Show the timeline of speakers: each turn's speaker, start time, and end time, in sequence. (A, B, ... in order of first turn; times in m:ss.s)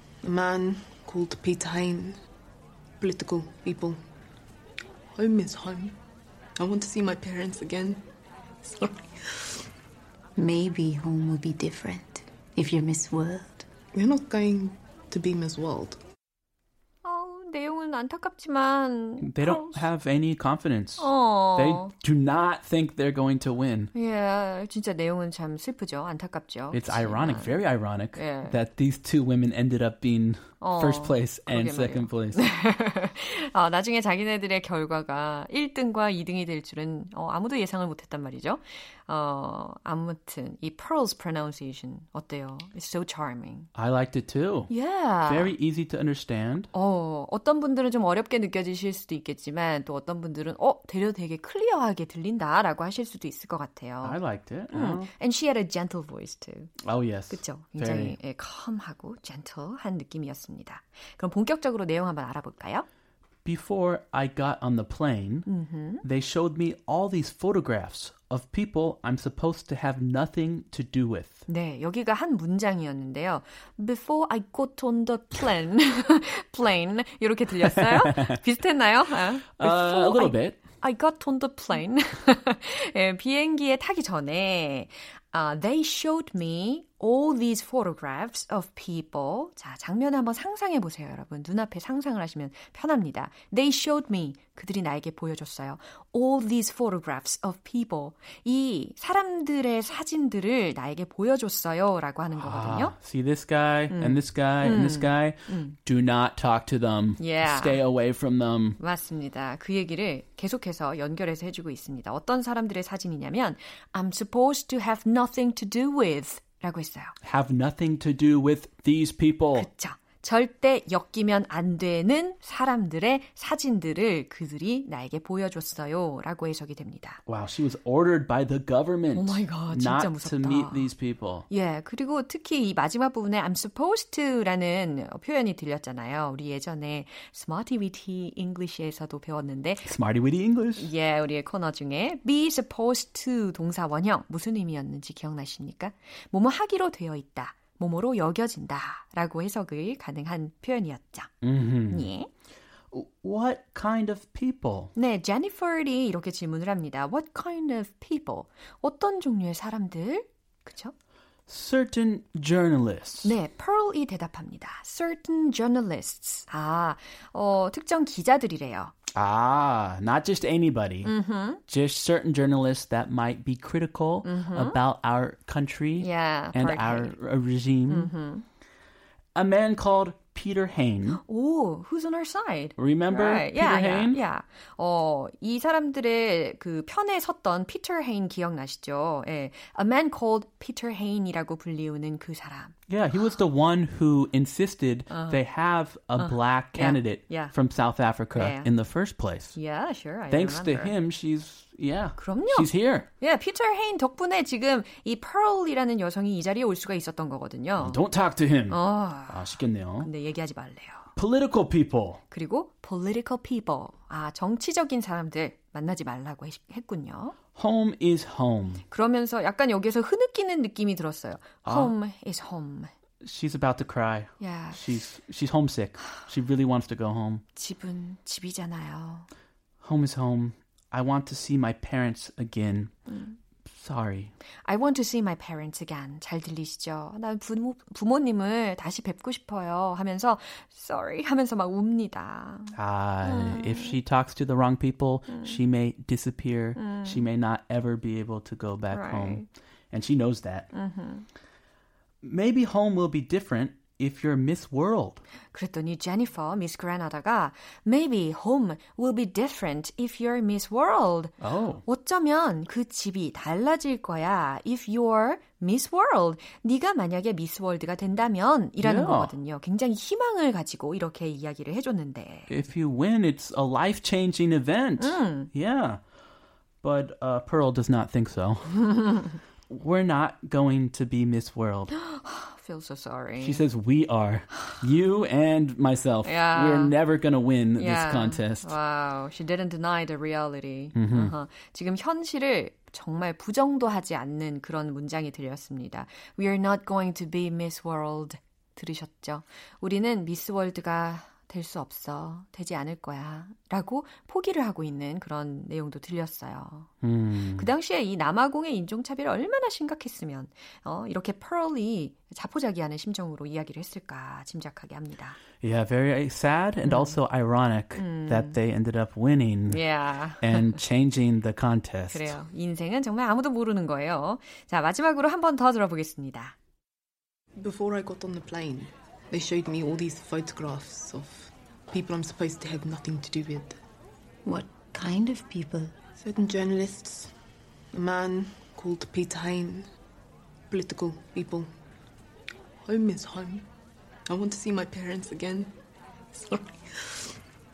0:00.2-0:02.2 A
0:03.0-0:04.0 A
0:05.1-0:06.0 A
0:06.6-0:08.0 A
0:08.6-0:09.6 A
0:10.4-0:13.7 B
0:13.9-0:16.0 A
0:17.0-0:19.9 C
0:19.2-0:23.9 D
0:21.0-0:21.9 C
0:23.9-0:27.6 C
0:26.7-0:32.5 D
0:28.1-0:28.6 C
0:30.6-0:43.7 C
0:43.7-0:44.7 D
0:44.7-0:45.5 C
0:45.2-0:46.7 D
0:46.7-0:54.2 C
0:54.0-0:55.1 D
0:54.7-0:56.7 C
0:56.8-0:58.2 D
0:57.3-1:02.8 C
1:03.4-1:05.5 D
1:05.4-1:06.0 C
1:06.0-1:11.4 D
1:11.5-1:42.9 C
1:17.8-1:18.4 D
1:19.6-1:20.6 D
1:42.4-1:48.8 D
1:43.9-1:45.8 C
1:47.2-1:47.8 C
1:48.8-1:57.1 C
1:57.2-1:59.7 D
1:59.5-2:07.2 C
2:07.2-2:11.4 D
2:09.1-2:10.9 C
2:11.5-2:19.9 C
2:19.8-2:20.9 D
2:20.8-2:31.3 C
2:31.4-2:32.0 D
2:31.9-2:32.3 C
2:32.9-2:34.9 D
2:34.9-2:40.9 C
2:41.5-2:43.3 D
2:43.2-2:48.9 C
2:49.1-2:51.1 D
2:51.0-2:51.6 C
2:51.7-2:58.1 D
2:54.2-2:54.8 C
2:56.0-2:57.2 C
2:57.9-2:58.4 C
2:59.3-3:01.2 D
3:01.2-3:12.7 C
3:02.8-3:04.2 D
3:12.9-3:19.6 D
3:15.1-3:15.4 C
3:16.2-3:17.5 C
3:18.3-3:18.7 C
3:19.5-3:20.9 C
3:20.3-3:23.1 D
3:22.2-3:22.7 C
3:23.2-3:28.0 C
3:27.8-3:30.1 D
3:28.7-3:31.1 C
3:31.2-3:32.2 D
3:32.3-3:37.4 C
3:37.5-3:38.8 D
3:38.9-3:42.9 C
3:41.6-3:41.9 D
3:43.2-3:47.4 D
3:44.4-3:44.8 C
3:47.6-3:49.3 C
3:49.8-3:52.9 D
3:53.1-3:53.4 C
3:53.7-3:54.3 D
3:54.6-4:04.0 C
4:02.7-4:10.7 D
4:05.3-4:05.5 C
4:06.8-4:07.2 C
4:08.9-4:09.5 C
4:10.7-4:11.2 C
4:12.2-4:15.2 D
4:15.5-4:32.5 C
4:21.4-4:21.8 D
4:28.8-4:29.3 D
4:32.5-4:36.0 D
4:35.0-4:35.5 C
4:36.8-4:39.1 D
4:39.7-4:41.9 D
4:41.9-4:43.6 C
4:43.4-4:48.7 D
4:46.2-4:46.9 C
4:47.8-5:06.9 C
4:50.9-4:51.3 D
5:07.0-5:07.7 D
5:07.6-5:15.4 C
5:15.6-5:19.8 D
5:16.8-5:17.2 C
5:18.0-5:18.6 C
5:19.7-5:20.8 C
5:20.4-5:22.3 D
5:22.1-5:26.5 C
5:27.6-5:33.8 A
5:34.4-5:35.9 B
5:36.2-5:37.3 A
5:37.9-5:39.9 A
5:40.7-5:41.7 A
5:42.8-5:43.7 A
5:44.3-5:45.7 A
5:46.3-5:47.3 A